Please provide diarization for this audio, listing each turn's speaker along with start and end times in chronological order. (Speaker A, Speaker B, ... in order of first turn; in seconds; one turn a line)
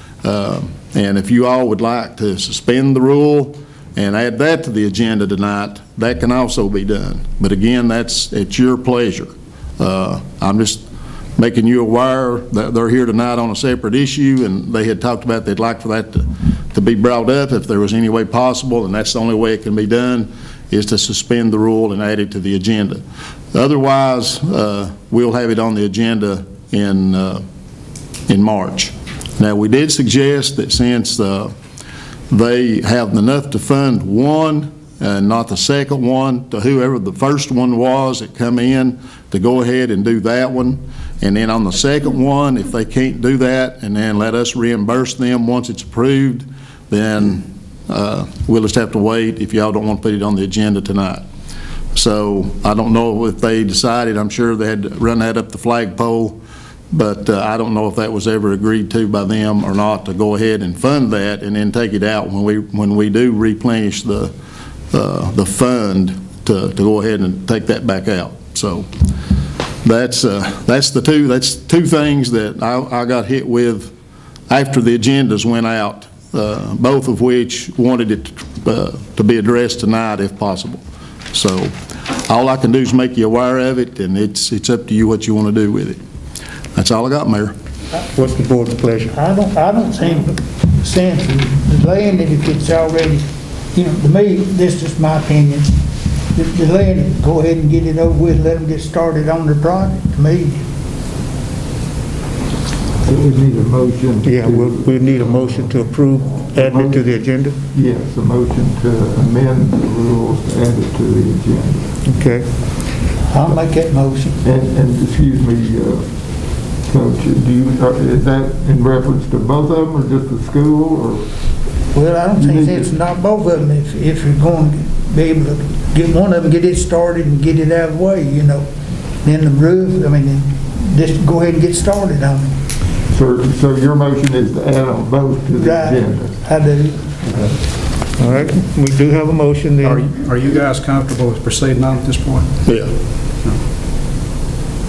Speaker A: 0.2-10.8
Speaker A: 11.4-23.0
Speaker A: 23.5-27.4
Speaker A: 28.3-31.5
Speaker A: 32.3-51.2
Speaker A: 51.9-56.4
Speaker A: 56.9-64.3
Speaker A: 64.9-68.9
Speaker A: 69.8-73.9
Speaker A: 74.5-80.8
Speaker A: 81.3-81.7
Speaker A: 82.2-86.0
Speaker A: 86.7-87.5
Speaker B: 88.1-89.1
Speaker C: 89.1-95.8
Speaker C: 96.3-100.6
Speaker D: 103.0-104.9
Speaker B: 104.2-107.6
Speaker D: 106.6-107.0
Speaker D: 107.7-111.9
Speaker B: 112.0-112.5
Speaker C: 113.3-114.4
Speaker D: 114.4-116.0
Speaker D: 116.9-121.2
Speaker C: 121.9-128.7
Speaker D: 122.4-122.9
Speaker C: 129.2-132.5
Speaker D: 133.1-136.4
Speaker C: 135.5-137.1
Speaker B: 138.2-140.1
Speaker E: 139.8-142.5
Speaker A: 142.7-142.9